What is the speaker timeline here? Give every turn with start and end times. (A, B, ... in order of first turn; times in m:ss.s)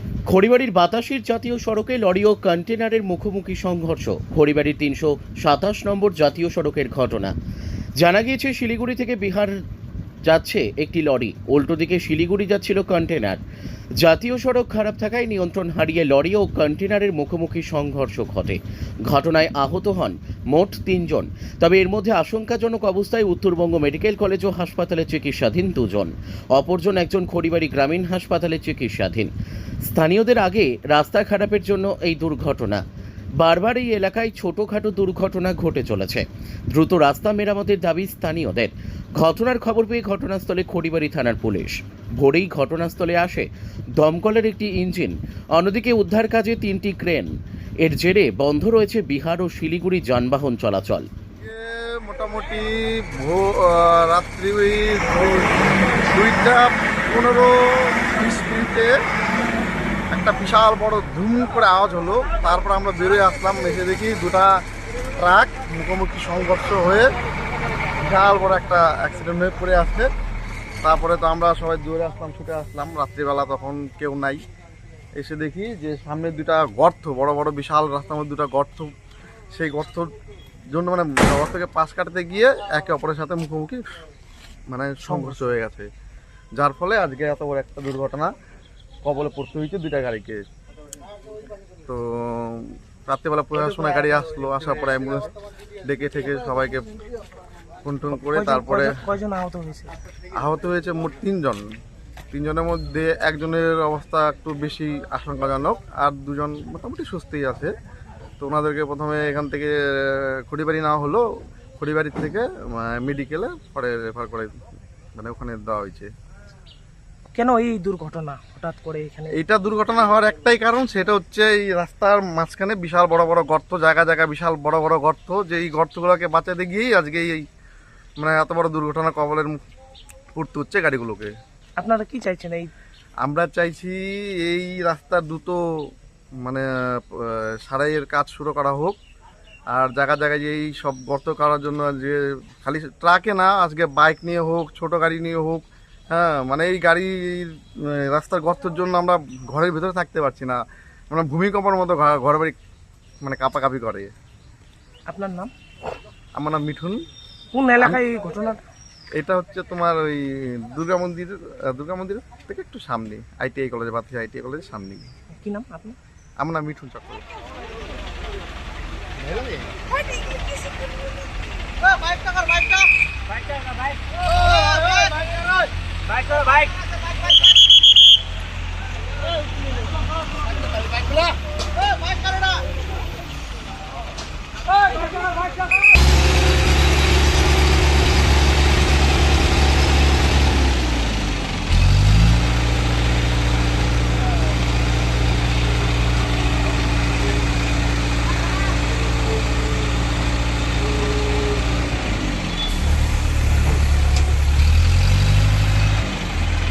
0:00.3-0:07.3 A
0:08.0-0:09.6 A
0:10.2-0:13.4 A
0:14.0-0:29.3 A
0:29.8-0:32.8 A
0:33.4-0:51.1 A
0:51.4-0:58.9 B
1:00.1-1:04.6 B
1:05.2-1:07.1 B
1:08.0-1:10.1 B
1:10.8-1:14.4 B
1:15.2-1:18.9 B
1:19.5-1:20.1 B
1:20.7-1:23.8 B
1:24.7-1:25.9 B
1:25.1-1:25.5 C
1:26.6-1:28.3 B
1:29.0-1:30.4 B
1:31.8-1:35.3 B
1:35.8-1:37.0 B
1:37.8-1:39.0 B
1:38.2-1:39.9 C
1:40.3-1:41.6 B
1:42.3-1:47.7 B
1:48.4-1:51.2 B
1:51.8-1:56.1 B
1:57.3-1:59.4 C
1:59.3-2:07.4 B
2:08.2-2:09.6 B
2:10.4-2:11.3 B
2:11.8-2:12.7 C
2:13.2-2:15.6 B
2:16.4-2:19.0 B
2:19.7-2:30.6 B
2:31.1-2:32.6 B
2:33.2-2:34.1 B
2:35.1-2:35.5 C
2:36.4-2:37.0 B
2:37.5-2:38.6 C
2:39.2-2:45.1 B
2:45.3-2:46.0 C
2:46.4-2:47.2 B
2:54.5-2:55.1 C
2:56.1-2:56.8 C